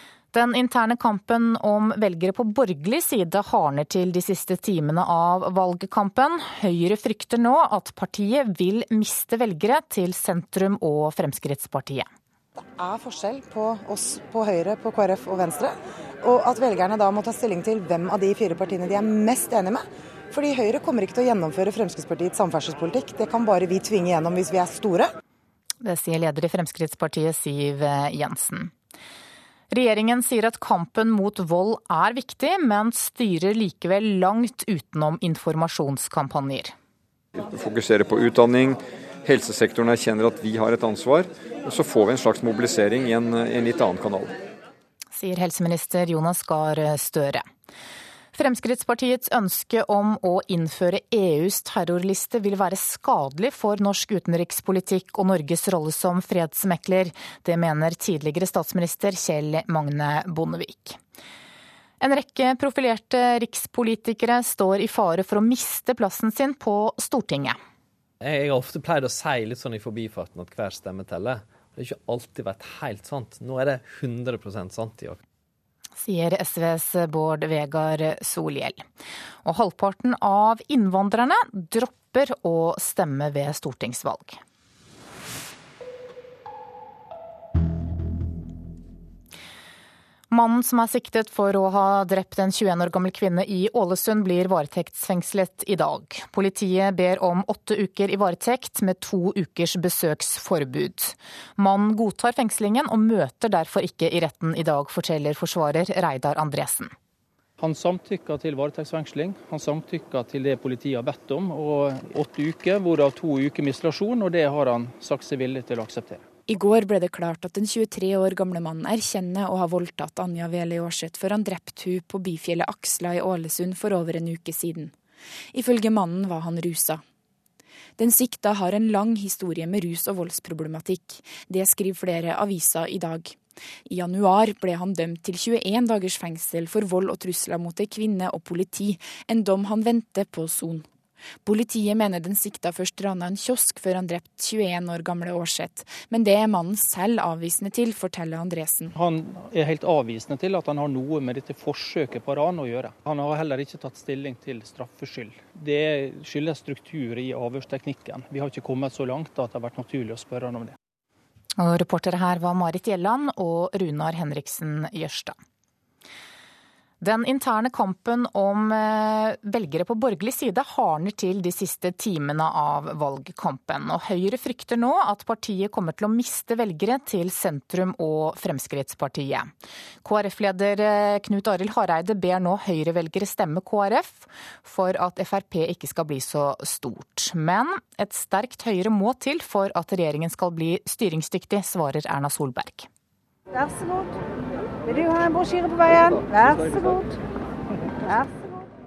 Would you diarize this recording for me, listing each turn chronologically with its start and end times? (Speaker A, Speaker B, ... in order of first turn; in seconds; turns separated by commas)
Speaker A: 0.3-12.1, Speaker B: 12.8-15.7, Speaker B: 16.2-19.8, Speaker B: 20.3-25.0, Speaker A: 25.8-28.7, Speaker A: 29.7-36.7, Speaker C: 37.4-44.3, Speaker A: 45.1-47.5, Speaker A: 48.3-61.0, Speaker A: 62.0-67.6, Speaker D: 68.2-75.2, Speaker A: 76.0-78.8, Speaker A: 79.4-84.4, Speaker A: 90.3-106.9, Speaker E: 107.6-116.2, Speaker F: 116.5-124.9, Speaker F: 125.5-127.0, Speaker F: 128.0-140.9, Speaker F: 141.4-148.9, Speaker E: 148.9-160.7, Speaker A: 161.6-165.4, Speaker A: 167.0-179.5, Speaker A: 180.0-192.9, Speaker G: 193.5-194.2, Speaker G: 194.9-197.2, Speaker G: 198.0-198.6